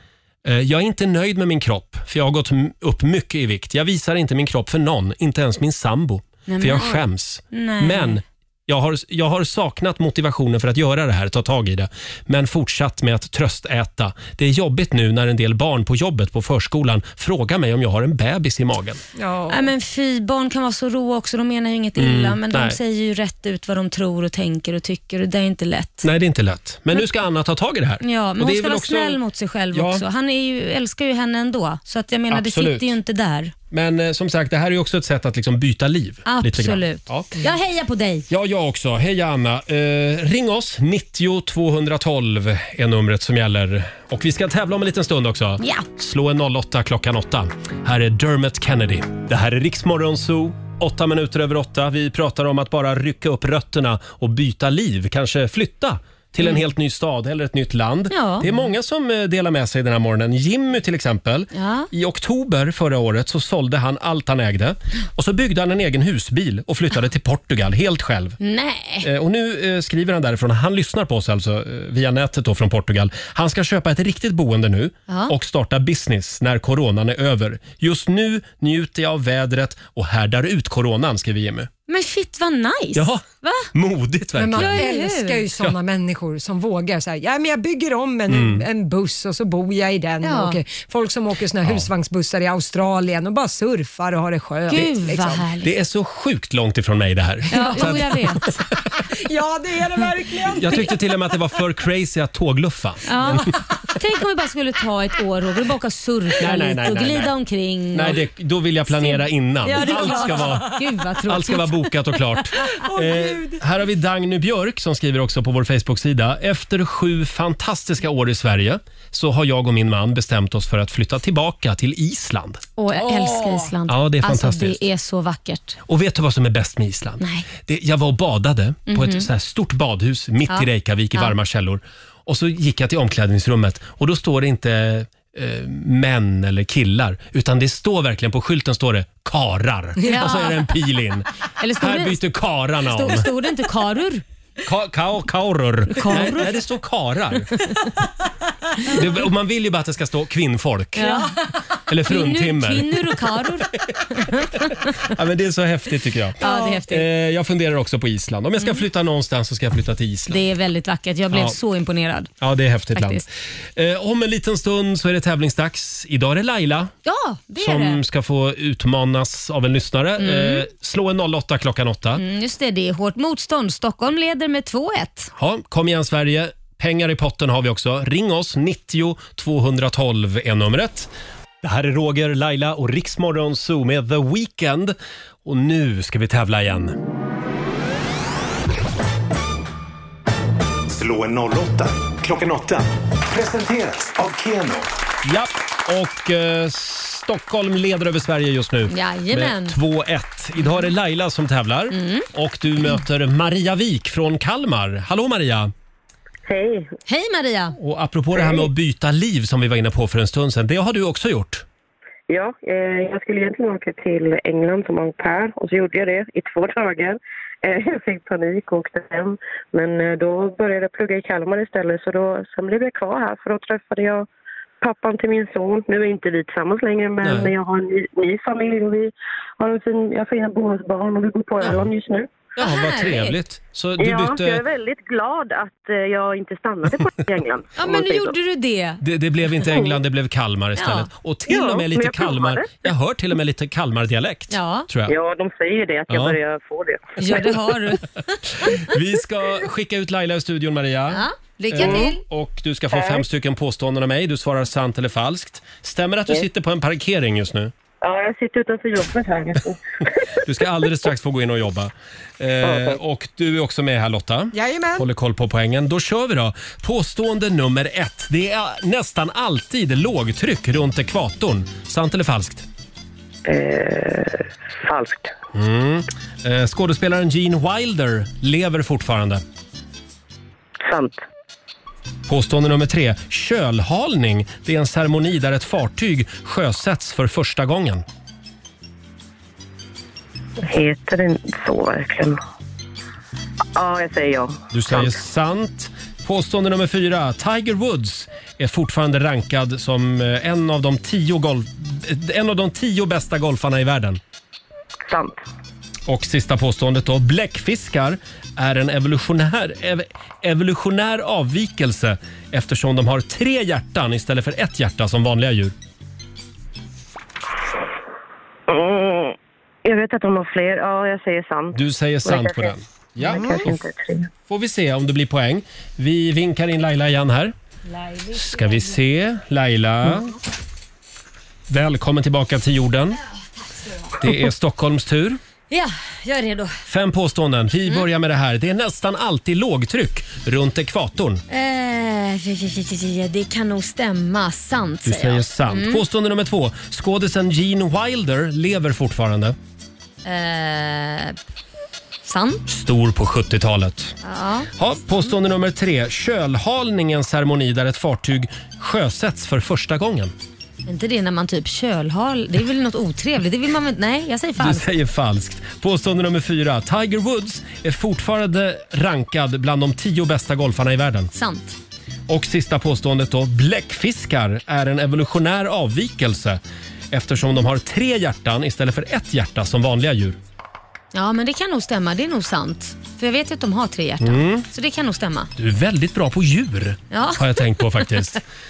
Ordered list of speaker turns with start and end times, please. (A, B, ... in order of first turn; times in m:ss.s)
0:00.4-0:19.0 A
0:06.5-0:08.2 B
0:19.2-0:19.7 C
0:19.5-0:26.1 B
0:22.0-0:22.8 A
0:26.0-0:29.2 A
0:28.0-0:33.5 B
0:29.7-0:30.0 A
0:32.3-0:32.9 A
0:33.7-0:37.3 A
0:36.2-0:38.3 B
0:38.3-1:08.4 A
0:45.6-0:45.8 B
0:58.1-0:58.4 B
1:01.5-1:01.9 B
1:08.4-1:09.1 B
1:09.0-1:21.7 A
1:15.1-1:15.3 B
1:21.9-1:23.7 B
1:23.0-1:24.9 A
1:24.4-1:35.4 C
1:24.5-1:25.4 B
1:28.3-1:28.6 A
1:30.2-1:30.6 B
1:31.6-1:31.9 A
1:34.7-1:35.7 B
1:35.6-1:38.5 A
1:37.5-1:38.5 B
1:37.5-1:38.2 C
1:39.0-1:40.9 C
1:40.5-1:43.6 A
1:43.0-1:48.2 B
1:46.4-1:47.3 A
1:47.9-2:02.6 A
1:48.9-1:52.4 B
1:52.7-1:53.6 C
2:02.8-2:05.8 B
2:03.0-2:03.5 C
2:03.9-2:04.8 A
2:05.9-2:23.3 A
2:07.2-2:07.4 B
2:08.9-2:09.3 B
2:10.5-2:11.3 B
2:20.0-2:20.6 B
2:21.6-2:22.2 B
2:22.8-2:24.2 B
2:24.6-2:27.5 A
2:25.9-2:26.6 B
2:28.8-2:31.3 A
2:31.0-2:31.3 B
2:31.9-2:33.4 A
2:32.0-2:35.1 B
2:35.0-2:40.4 A
2:36.4-2:37.1 B
2:36.4-2:36.8 C
2:40.3-2:42.3 B
2:41.3-2:41.6 A
2:42.4-2:46.9 A
2:42.9-2:43.2 B
2:47.0-2:48.0 B
2:47.6-2:52.2 A
2:50.2-2:50.7 B
2:52.2-2:55.3 B
2:55.4-3:01.1 A
3:01.6-3:07.0 A
3:10.9-3:14.9 D
3:15.2-3:25.7 A
3:18.9-3:19.8 B
3:21.9-3:22.2 B
3:26.4-3:26.9 E
3:27.1-3:27.8 B
3:27.8-3:31.6 A
3:32.3-3:44.3 E
3:44.8-3:52.4 E
3:47.2-3:47.5 A
3:52.6-3:54.6 A
3:52.6-3:53.4 B
3:54.0-3:58.4 E
3:57.8-3:59.0 B
3:59.0-4:05.1 A
4:00.8-4:01.1 B
4:01.5-4:02.8 E
4:04.5-4:04.9 B
4:05.1-4:07.5 E
4:06.1-4:06.4 A
4:07.2-4:08.1 B
4:08.7-4:17.7 A
4:11.1-4:12.2 B
4:11.8-4:12.1 E
4:12.9-4:13.2 E
4:18.0-4:19.8 E
4:20.4-4:32.6 A
4:22.6-4:23.0 E
4:24.5-4:25.0 C
4:33.4-4:35.3 E
4:35.5-4:39.4 A
4:40.8-4:41.2 E
4:42.3-4:48.0 A
4:50.6-4:52.4 E
4:53.7-4:55.2 E
4:54.7-5:04.2 A
5:05.1-5:05.4 E
5:06.1-5:15.7 A
5:18.7-5:24.3 E
5:21.7-5:23.8 A
5:23.2-5:23.7 C
5:24.5-5:27.5 A
5:28.0-5:28.9 B
5:28.3-5:30.3 A
5:31.7-5:33.2 A
5:34.2-5:35.4 A
5:35.7-5:36.8 B
5:36.9-5:41.4 A
5:41.5-5:46.0 B
5:45.0-5:49.6 A
5:50.2-5:51.4 B
5:52.2-5:52.6 B
5:52.7-5:54.1 A
5:54.2-5:54.7 B
5:54.8-6:00.3 A
6:00.8-6:04.8 B
6:04.6-6:11.3 A
6:11.3-6:11.8 B
6:12.3-6:20.4 A
6:21.1-6:25.5 B
6:24.2-6:24.6 A
6:25.6-6:28.4 A
6:27.1-6:28.0 B